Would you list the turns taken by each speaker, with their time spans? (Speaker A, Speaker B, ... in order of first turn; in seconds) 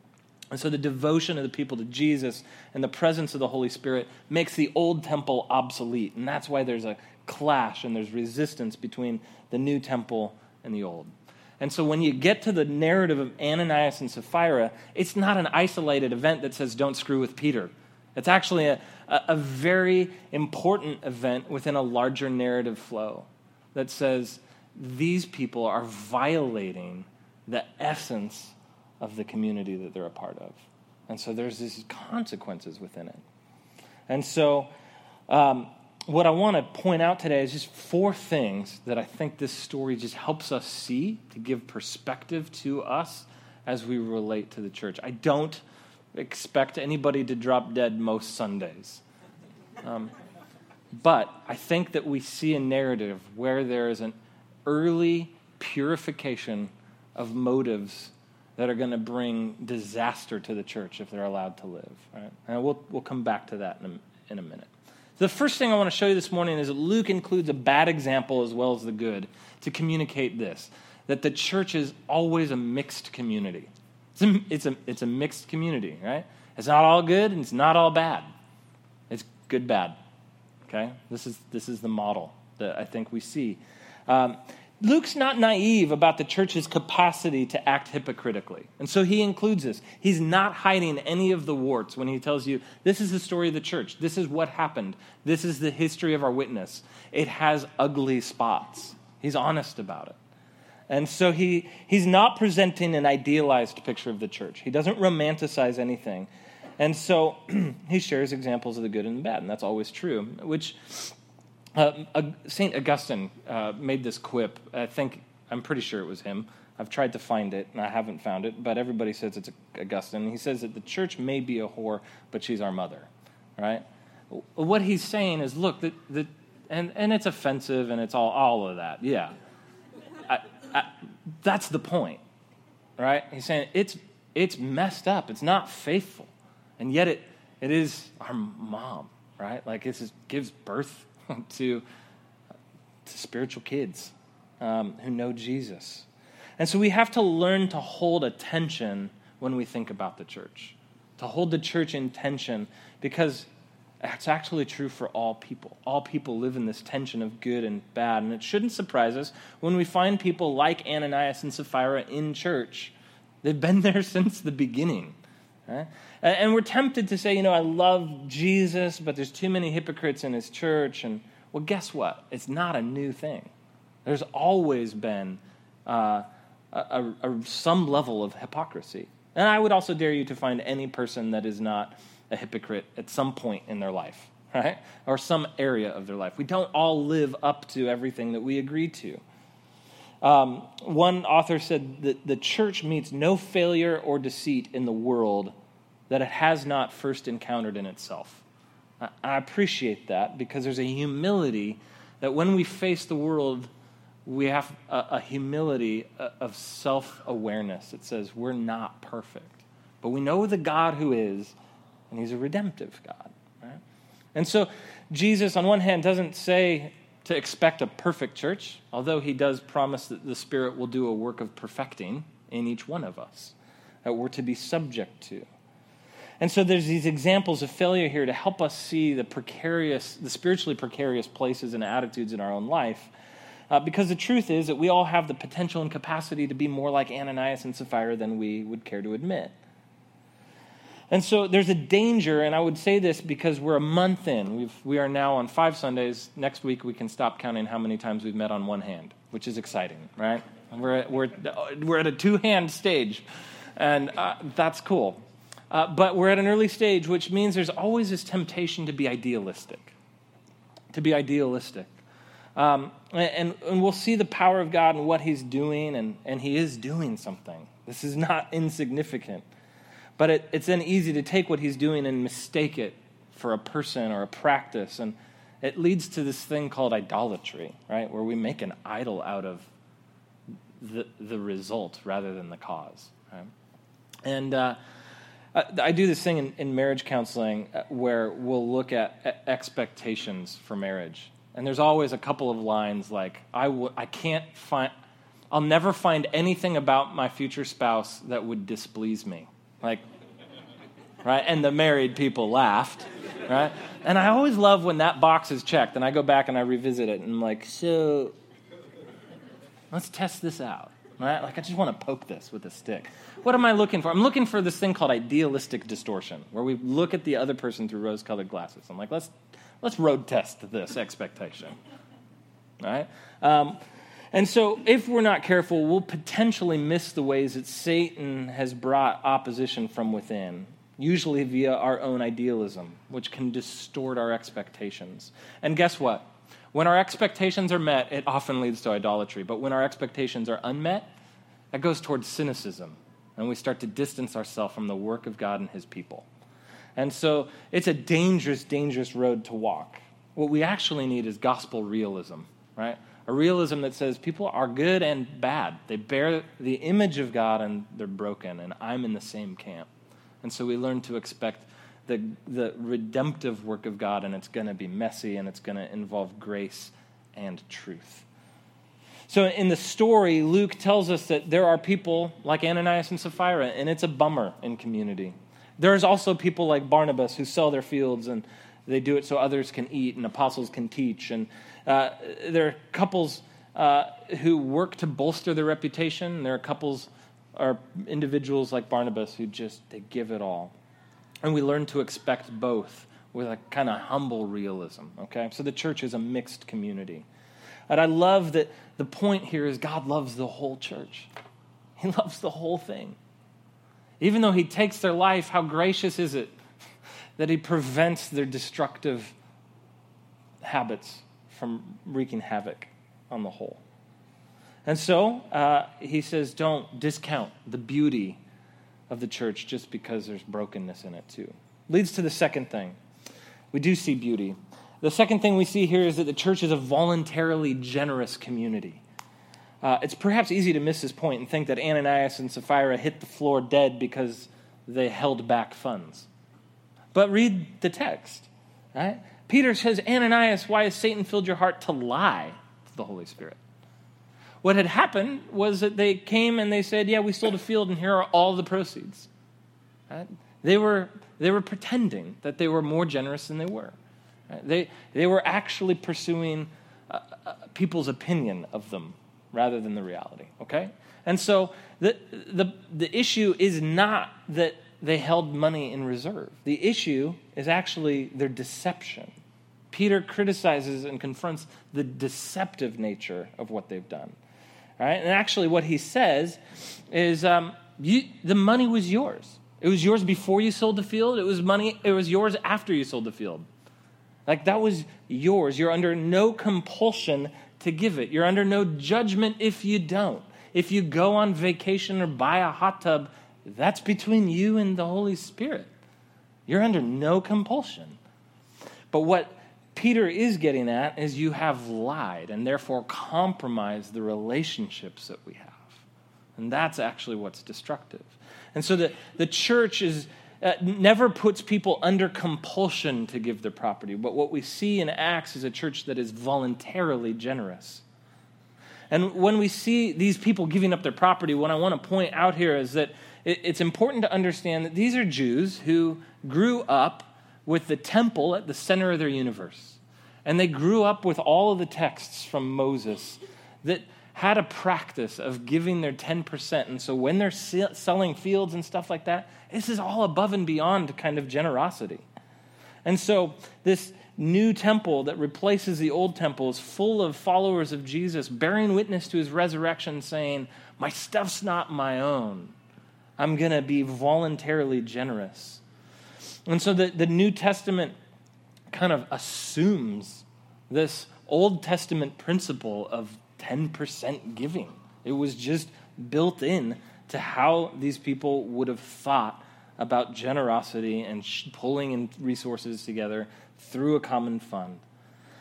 Speaker A: 0.5-33.2, 34.1-34.7, 35.3-45.6, 46.1-49.0, 49.8-50.1, 50.9-54.1, 54.6-78.3, 79.1-80.0, 80.7-100.2, 100.9-111.1, 111.7-129.3, 130.3-132.2, 133.0-141.8, 143.0-153.5, 154.0-173.5, 174.0-189.2, 190.2-195.5, 196.1-198.4, 199.0-203.7, 204.2-211.5, 212.1-213.8, 214.3-225.5, 226.4-233.1, 233.7-239.5, 241.1-253.2, 253.8-255.2, 255.7-259.9, 260.9-261.9, 262.6-269.4, 270.2-279.7, 280.8-283.5, 284.2-284.8, 285.5-294.9, 295.5-300.0, 301.2-308.3, 309.9-321.8, 322.8-323.8, 324.3-341.1, 341.7-346.3, 346.9-359.9, 360.4-368.3, 369.3-390.7, 391.4-397.2, 397.9-401.3, 402.0-403.2, 404.2-406.6, 407.4-409.3, 410.6-413.8, 414.8-418.4, 419.1-423.0, 423.7-429.0, 429.8-436.3, 437.1-443.6, 444.6-449.3, 450.1-453.9, 454.5-469.3, 469.9-474.4, 475.0-483.7, 484.5-495.9, 496.7-498.2, 499.1-506.0, 506.6-518.0, 519.1-542.2, 543.0-552.8, 553.4-555.8, 556.7-558.1, 558.9-575.0